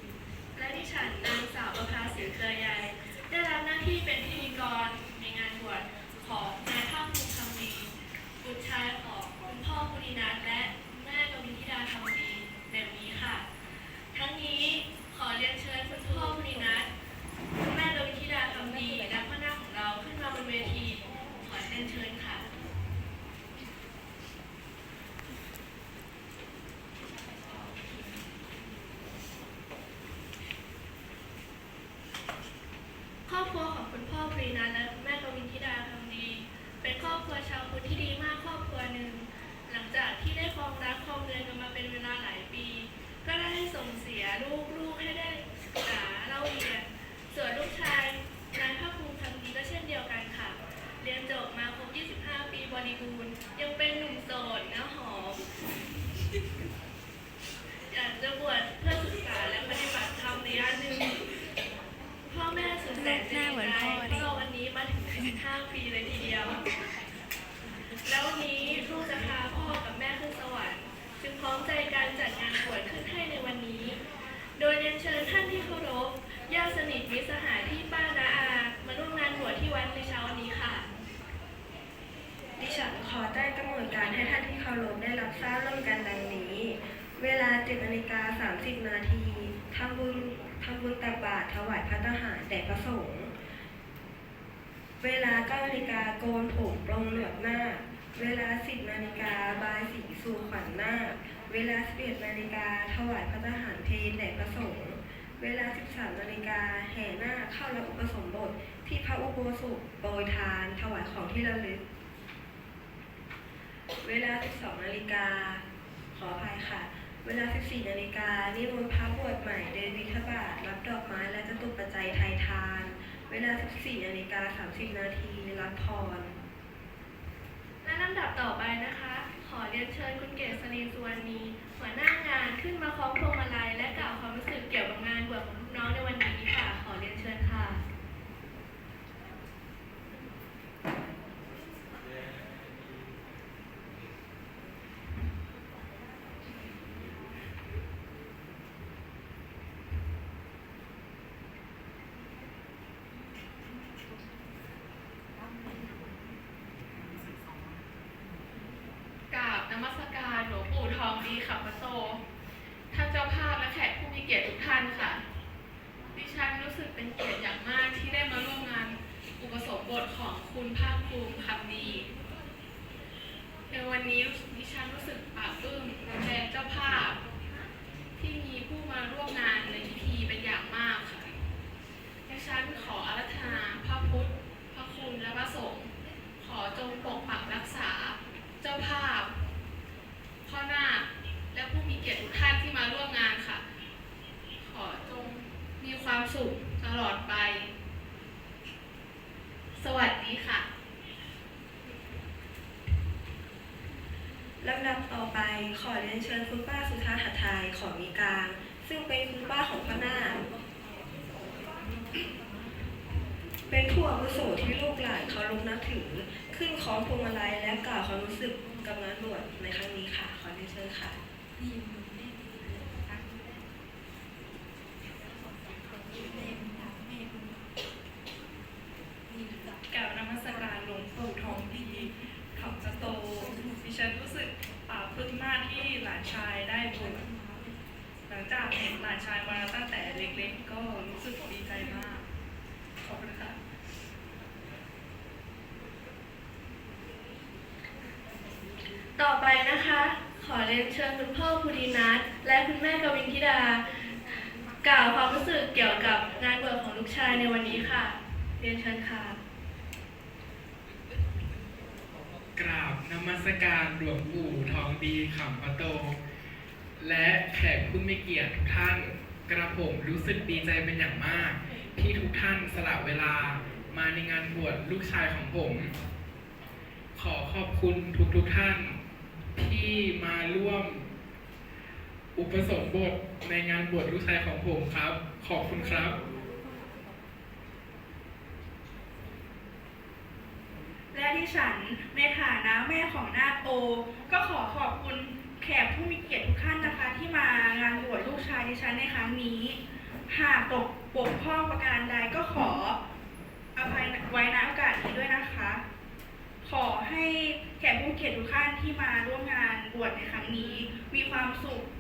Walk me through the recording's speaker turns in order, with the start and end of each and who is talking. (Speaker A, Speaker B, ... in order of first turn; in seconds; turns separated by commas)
Speaker A: 0.5-13.4, Speaker A: 14.1-16.9, Speaker B: 16.3-16.8, Speaker A: 17.6-22.4, Speaker B: 18.8-19.1, Speaker A: 33.2-55.4, Speaker A: 57.9-61.2, Speaker A: 62.3-66.6, Speaker B: 63.0-64.3, Speaker A: 68.0-74.0, Speaker A: 74.6-80.8, Speaker B: 82.6-93.3, Speaker B: 95.0-111.8, Speaker B: 114.0-115.6, Speaker B: 116.1-126.4, Speaker A: 127.8-137.8, Speaker C: 159.3-162.2, Speaker C: 162.9-165.2, Speaker C: 166.2-172.1, Speaker C: 173.7-177.2, Speaker C: 178.2-181.3, Speaker C: 182.3-185.9, Speaker C: 186.4-189.3, Speaker C: 190.4-193.6, Speaker C: 194.6-197.7, Speaker C: 199.8-200.7, Speaker B: 204.6-210.5, Speaker B: 213.7-221.2, Speaker D: 229.9-237.3, Speaker D: 238.3-242.2, Speaker D: 243.0-243.6, Speaker A: 249.2-253.8, Speaker A: 254.8-259.4, Speaker E: 262.6-266.1, Speaker E: 267.0-275.9, Speaker E: 277.1-279.0, Speaker E: 279.5-281.1, Speaker E: 282.3-286.1, Speaker F: 291.1-303.0, Speaker F: 303.7-305.8, Speaker F: 306.6-311.9